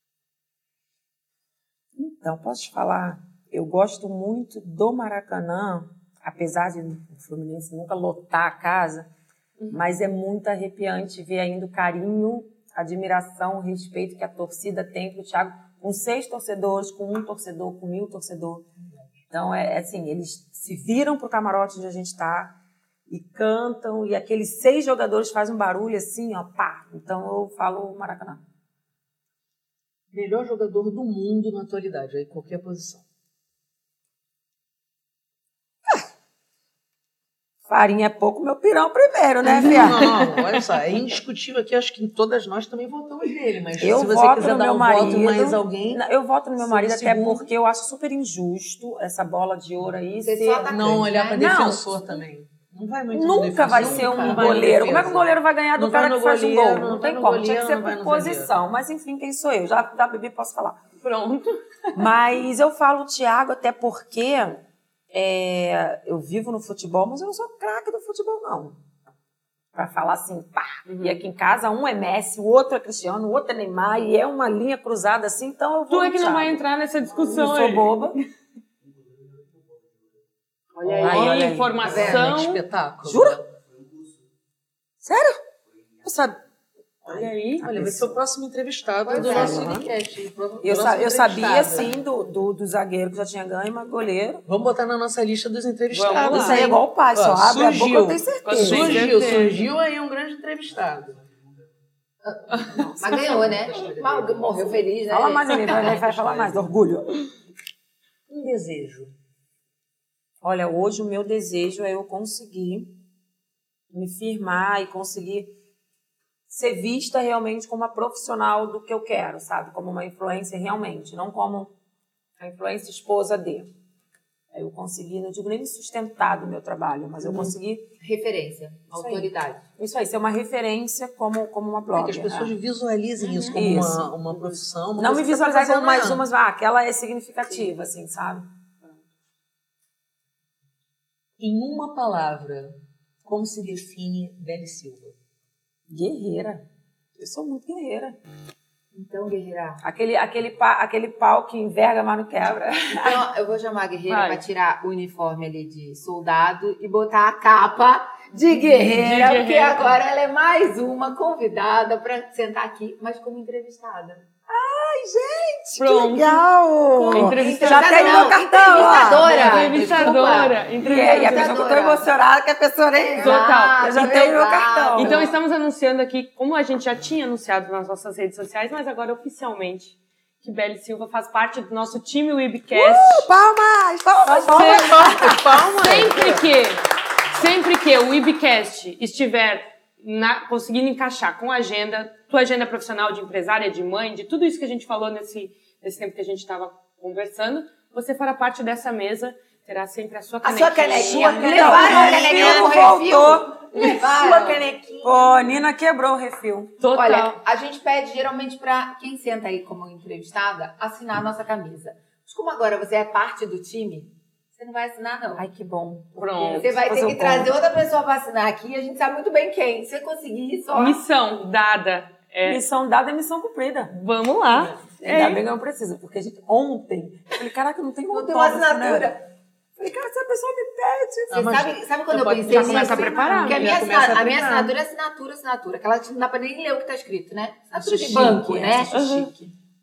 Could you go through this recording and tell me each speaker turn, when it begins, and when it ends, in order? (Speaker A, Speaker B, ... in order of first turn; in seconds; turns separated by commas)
Speaker A: 1.9-9.1, Speaker A: 9.7-18.6, Speaker B: 18.8-19.2, Speaker A: 19.3-22.5, Speaker A: 23.1-28.4, Speaker B: 30.1-33.0, Speaker A: 37.7-40.2, Speaker B: 39.5-46.0, Speaker A: 43.8-50.7, Speaker B: 46.6-47.5, Speaker C: 50.2-51.7, Speaker B: 50.7-58.5, Speaker A: 51.3-52.0, Speaker A: 53.1-60.8, Speaker C: 53.6-54.5, Speaker D: 61.0-62.1, Speaker A: 61.9-64.6, Speaker A: 65.1-68.8, Speaker A: 69.7-78.2, Speaker D: 70.8-71.2, Speaker D: 75.9-78.0, Speaker D: 80.8-82.6, Speaker C: 80.8-82.2, Speaker A: 81.0-81.9, Speaker B: 81.8-83.5, Speaker A: 83.0-83.4, Speaker A: 85.0-85.4, Speaker A: 86.0-86.4, Speaker D: 87.1-87.7, Speaker B: 87.1-91.9, Speaker A: 87.6-88.2, Speaker C: 89.0-89.8, Speaker A: 89.2-89.9, Speaker A: 90.6-94.4, Speaker B: 94.5-101.3, Speaker D: 95.9-96.8, Speaker A: 96.1-99.2, Speaker D: 98.4-99.6, Speaker C: 102.2-106.0, Speaker A: 102.7-103.3, Speaker B: 103.0-104.7, Speaker A: 105.1-107.2, Speaker B: 105.8-106.7, Speaker B: 108.3-109.1, Speaker A: 110.4-112.9, Speaker A: 113.9-115.5, Speaker A: 116.5-121.7, Speaker A: 122.4-123.7, Speaker A: 124.5-127.8, Speaker B: 127.2-127.5, Speaker C: 128.0-129.6, Speaker A: 128.9-132.5, Speaker B: 131.9-136.3, Speaker D: 133.2-133.6, Speaker A: 133.5-134.2, Speaker D: 134.3-134.6, Speaker A: 135.0-138.5, Speaker B: 141.4-145.1, Speaker A: 145.9-146.6, Speaker A: 147.2-148.2, Speaker C: 148.9-149.8, Speaker A: 149.8-153.2, Speaker C: 153.0-164.2, Speaker D: 154.1-154.4, Speaker A: 158.3-159.3, Speaker D: 158.9-160.0, Speaker A: 164.5-169.3, Speaker D: 165.8-171.6, Speaker C: 167.1-172.1, Speaker B: 169.1-170.5, Speaker A: 170.8-175.2, Speaker C: 172.9-175.3, Speaker D: 173.2-173.5, Speaker D: 174.9-183.3, Speaker A: 182.7-185.5, Speaker B: 184.2-186.5, Speaker D: 184.3-201.8, Speaker C: 200.4-204.6, Speaker A: 200.8-203.6, Speaker B: 201.5-202.8, Speaker B: 203.7-205.4, Speaker A: 205.0-206.7, Speaker D: 206.8-207.4, Speaker C: 206.9-215.4, Speaker A: 215.4-217.5, Speaker D: 216.2-216.7, Speaker C: 216.6-221.0, Speaker D: 220.7-222.6, Speaker A: 222.4-223.9, Speaker D: 223.9-225.4, Speaker B: 224.5-224.8, Speaker A: 225.0-229.1, Speaker C: 228.1-229.2, Speaker A: 229.8-231.6, Speaker B: 231.3-234.8, Speaker C: 231.4-239.3, Speaker D: 232.5-233.8, Speaker A: 232.5-233.5, Speaker B: 237.8-238.7, Speaker A: 237.9-239.3, Speaker D: 238.9-239.3